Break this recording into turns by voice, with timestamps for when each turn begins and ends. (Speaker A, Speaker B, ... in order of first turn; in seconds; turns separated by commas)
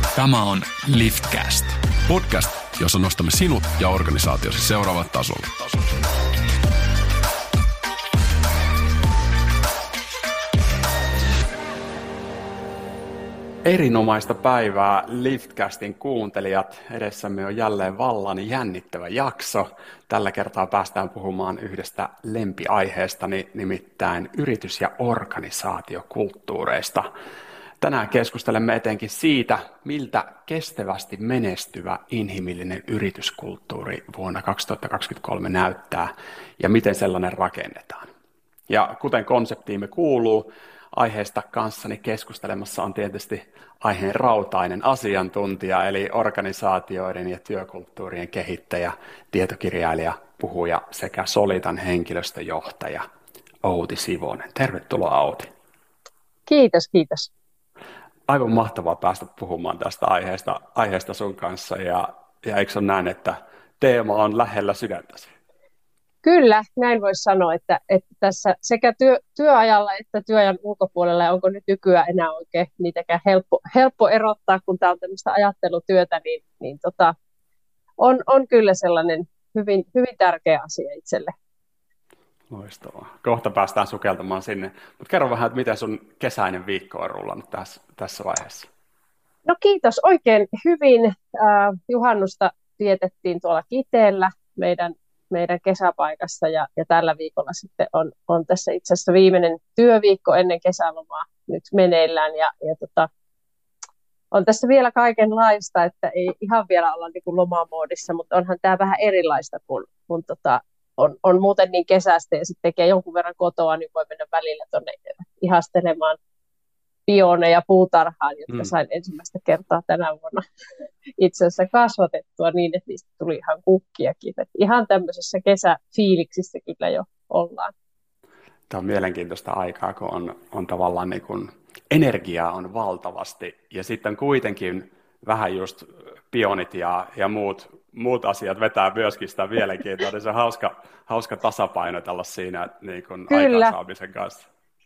Speaker A: 0.1-1.8, Speaker B: 2.1-5.6, Speaker A: 13.6-27.1, Speaker A: 27.8-38.1, Speaker A: 38.7-53.0, Speaker A: 53.6-55.5, Speaker C: 56.5-57.3, Speaker A: 58.3-65.3, Speaker C: 66.2-77.2, Speaker C: 78.0-81.3, Speaker A: 82.5-88.7, Speaker C: 89.5-103.1, Speaker C: 104.3-116.2, Speaker C: 117.1-120.4, Speaker C: 121.2-127.7, Speaker A: 128.7-144.5, Speaker C: 143.3-143.8